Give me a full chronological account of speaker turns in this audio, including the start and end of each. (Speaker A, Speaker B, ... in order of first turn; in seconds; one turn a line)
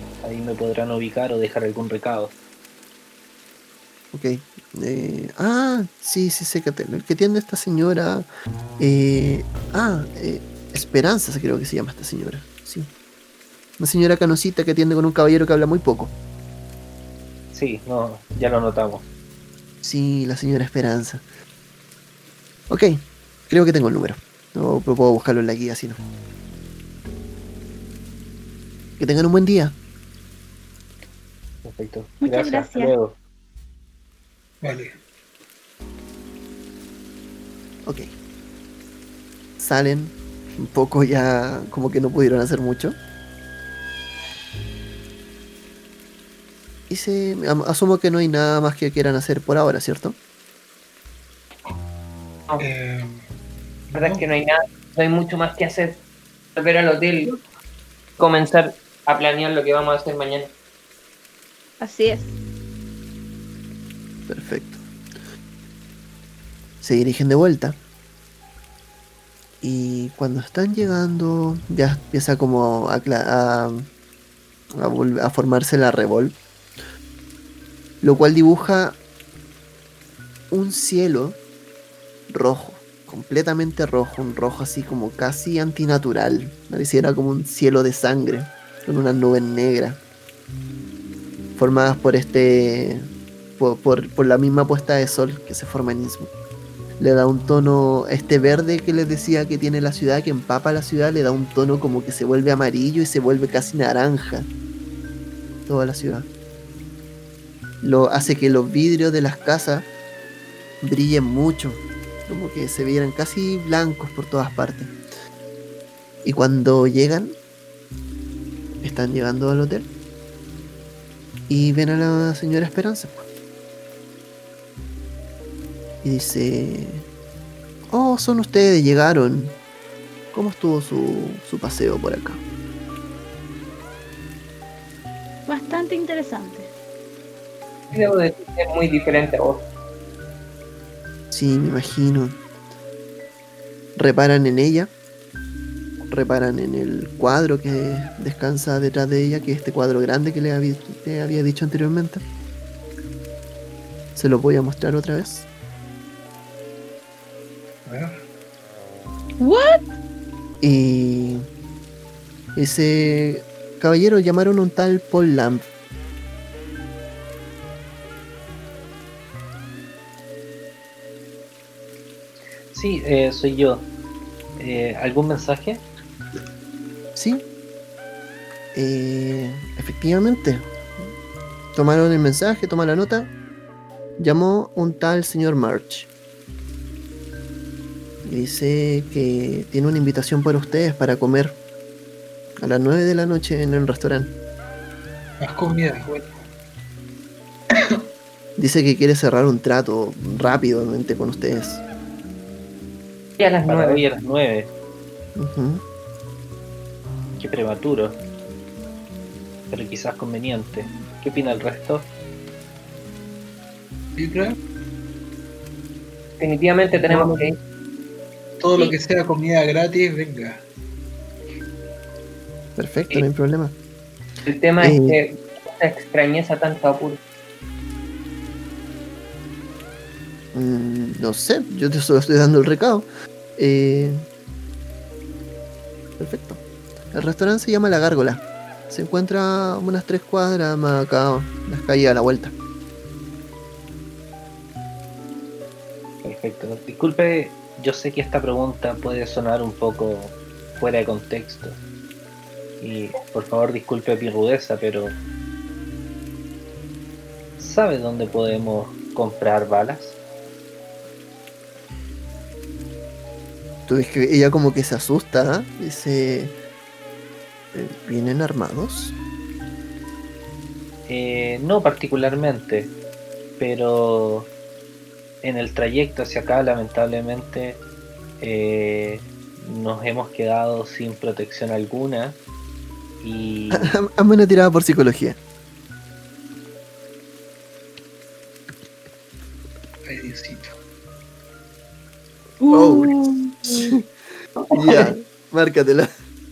Speaker A: 0.2-2.4
Speaker B: 4.1-8.3
Speaker B: 8.8-12.9
Speaker B: 13.8-16.1
Speaker A: 17.5-19.1
Speaker B: 19.8-21.2
Speaker B: 22.7-26.0
Speaker B: 29.0-29.8
Speaker A: 31.6-33.2
Speaker C: 32.2-33.0
Speaker D: 34.6-34.9
Speaker B: 37.8-38.1
Speaker B: 39.6-43.0
Speaker B: 46.9-50.2
Speaker D: 52.6-53.2
Speaker D: 53.9-54.2
Speaker E: 53.9-56.0
Speaker E: 56.6-57.3
Speaker E: 58.2-60.5
Speaker C: 61.8-62.3
Speaker B: 64.3-64.8
Speaker B: 66.8-67.8
Speaker B: 69.6-73.9
Speaker B: 74.8-76.4
Speaker B: 78.0-79.0
Speaker B: 80.5-81.4
Speaker B: 82.3-90.0
Speaker B: 91.6-96.3
Speaker B: 97.0-104.5
Speaker B: 105.7-106.3
Speaker B: 107.8-109.9
Speaker B: 110.8-115.0
Speaker B: 116.2-117.4
Speaker B: 118.8-119.9
Speaker B: 121.5-123.2
Speaker B: 126.0-127.1
Speaker B: 127.9-129.6
Speaker B: 130.3-132.4
Speaker C: 135.5-136.7
Speaker E: 137.9-139.7
Speaker B: 141.3-142.4
Speaker B: 144.0-144.9
Speaker B: 146.1-152.2
Speaker B: 154.2-155.5
Speaker D: 157.9-158.2
Speaker C: 159.4-159.9
Speaker B: 160.6-161.4
Speaker B: 162.6-165.7
Speaker A: 172.7-173.9
Speaker A: 174.6-175.8
Speaker B: 177.2-177.4
Speaker B: 178.7-180.7
Speaker B: 181.8-183.3
Speaker B: 184.2-186.1
Speaker B: 188.2-191.6
Speaker B: 192.6-194.3
Speaker D: 195.4-196.4
Speaker D: 197.7-198.0
Speaker B: 198.6-201.8
Speaker E: 203.4-204.1
Speaker A: 203.6-204.7
Speaker B: 205.4-205.8
Speaker A: 207.4-208.2
Speaker A: 209.7-212.1
Speaker D: 214.2-214.6
Speaker E: 216.4-217.6
Speaker D: 217.1-217.4
Speaker D: 218.6-220.6
Speaker B: 222.8-223.8
Speaker E: 224.5-227.2
Speaker B: 224.8-225.2
Speaker B: 230.5-234.2
Speaker B: 236.2-236.6
Speaker B: 237.1-242.5
Speaker A: 246.2-251.8
Speaker A: 252.8-255.2
Speaker A: 257.6-260.2
Speaker B: 263.9-266.6
Speaker B: 267.7-269.1
Speaker A: 271.1-272.9
Speaker A: 273.6-274.5
Speaker A: 275.4-277.8
Speaker A: 278.4-282.4
Speaker A: 283.2-283.9
Speaker B: 283.7-285.4
Speaker D: 290.1-290.8
Speaker C: 292.6-293.9
Speaker B: 292.7-294.0
Speaker B: 294.7-296.1